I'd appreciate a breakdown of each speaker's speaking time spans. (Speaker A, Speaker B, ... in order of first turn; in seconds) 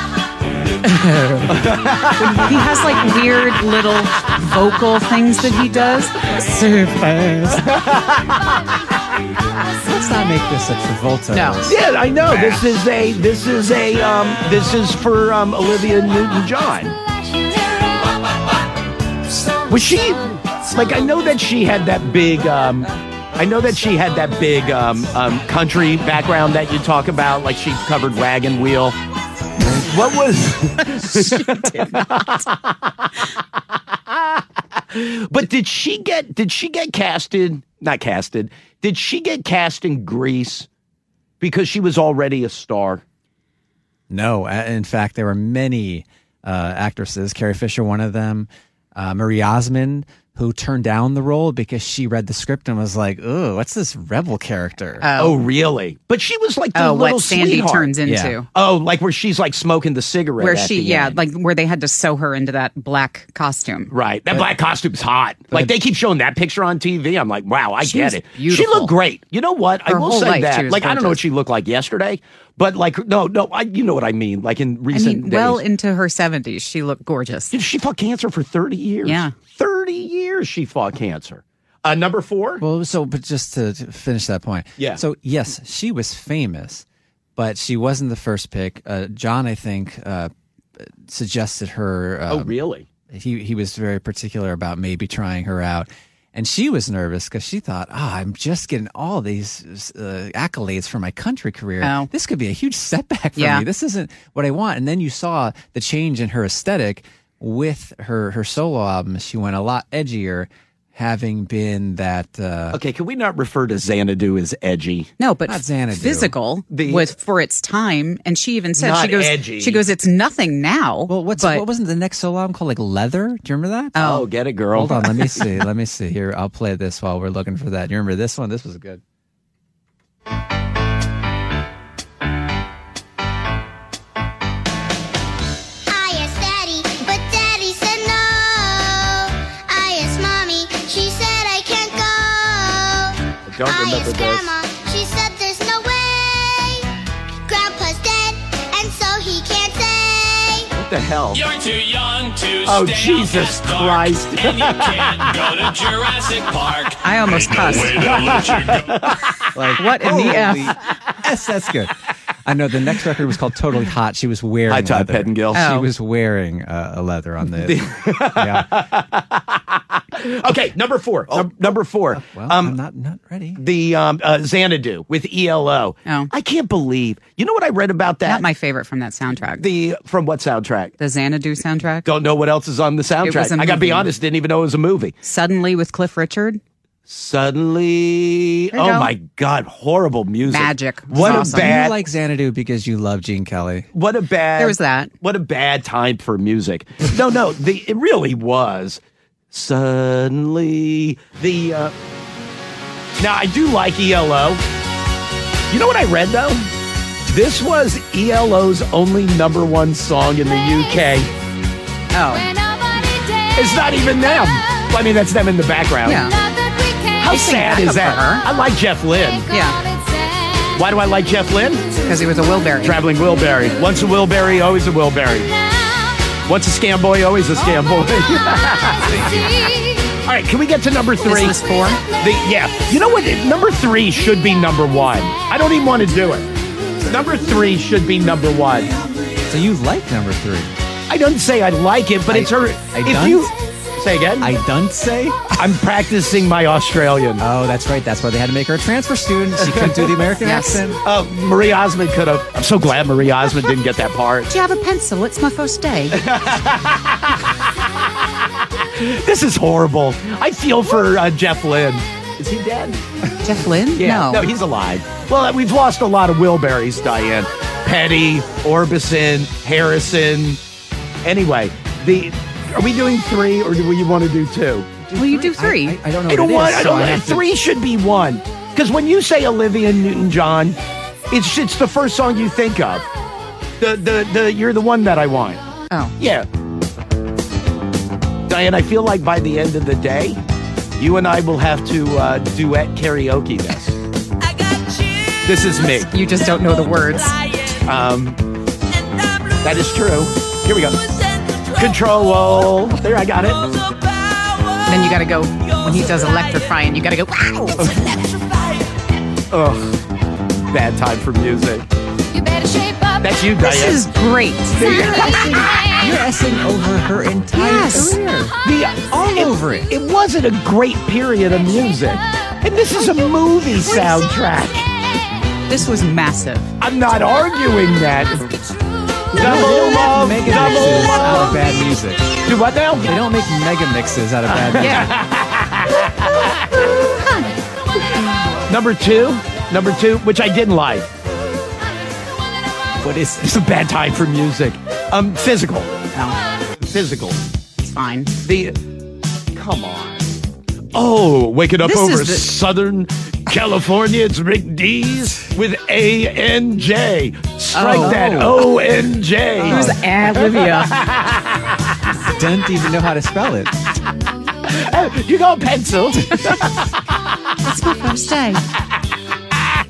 Speaker A: 0.8-1.5, 2.2-7.5, 11.3-11.6, 31.4-31.8, 55.0-55.4, 56.8-58.5, 60.4-63.9, 67.8-68.9, 69.9-71.2, 74.9-77.5, 79.0-79.3, 101.8-102.1, 103.4-103.7, 115.2-121.7, 124.0-124.3, 157.0-158.0, 159.8-160.8, 165.6-165.9, 176.1-176.3, 178.2-179.7, 181.0-182.1, 183.2-184.1, 185.2-186.6, 188.7-189.1, 190.4-191.8, 194.6-195.1, 212.1-212.6, 216.0-216.3, 217.3-218.4, 219.5-219.9, 222.0-223.0, 231.2-232.1, 250.4-250.8, 254.5-256.2, 263.4-264.5, 275.2-276.0, 296.0-297.4, 304.9-308.0, 313.6-315.2, 317.5-318.2, 325.7-326.7, 334.8-335.1, 337.0-337.5, 346.1-346.4, 347.8-348.4, 351.8-352.5, 357.7-358.5, 359.6-360.9, 367.6-368.6
Speaker B: 1.5-2.5, 7.6-8.8, 11.7-16.9, 19.7-29.0, 29.7-33.3, 34.1-34.4, 34.9-40.7, 41.4-43.0, 55.2-58.0, 58.5-61.2, 63.9-75.6, 77.5-82.6, 84.8-85.0, 92.3-92.9, 112.7-115.1, 116.7-117.2, 118.8-119.8, 124.0-125.6, 143.5-144.5, 150.8-151.5, 152.6-155.7, 158.0-159.4, 164.7-165.7, 167.6-172.8, 173.6-178.4, 179.6-180.9, 182.1-185.2, 187.1-192.0, 193.9-199.0, 199.5-201.9, 203.2-204.6, 205.7-206.7, 207.3-211.3, 213.6-216.3, 217.2-219.5, 220.8-221.9, 222.8-225.5, 226.5-229.7, 230.2-231.6, 232.2-236.5, 237.0-238.9, 241.1-244.5, 245.6-247.4, 249.8-250.1, 251.0-254.5, 256.1-257.6, 258.9-263.0, 263.9-270.6, 271.2-274.9, 276.3-280.8, 281.3-283.1, 283.8-285.6, 286.2-286.5, 288.5-290.4, 291.0-294.0, 295.4-296.1, 297.7-298.4, 299.6-303.9, 307.8-308.5, 309.5-310.0, 310.7-311.9, 313.2-314.1, 314.7-315.5, 318.6-324.9, 326.8-328.4, 329.3-331.6, 332.4-333.1, 334.5-336.8, 338.1-341.1, 343.4-345.9, 346.8-347.4, 348.4-348.8, 349.6-350.3, 350.9-362.1, 364.6-366.9
Speaker C: 6.9-7.6, 9.8-11.7, 12.3-12.6, 44.1-55.1, 58.0-58.4, 82.6-86.8, 87.4-92.5, 93.1-112.8, 115.5-116.3, 121.1-124.0, 124.7-129.0, 159.5-161.9, 162.5-168.7, 171.3-173.6, 191.2-193.9, 239.5-240.7, 242.3-243.5, 244.4-245.6, 247.4-251.0, 275.0-277.5, 314.8-318.6, 319.2-319.9, 329.3-332.4, 333.0-335.1, 343.0-343.6, 357.9-358.7, 359.6-360.0, 362.3-363.8
Speaker D: 135.9-146.9, 147.4-150.7
Speaker E: 151.3-154.1, 154.8-158.8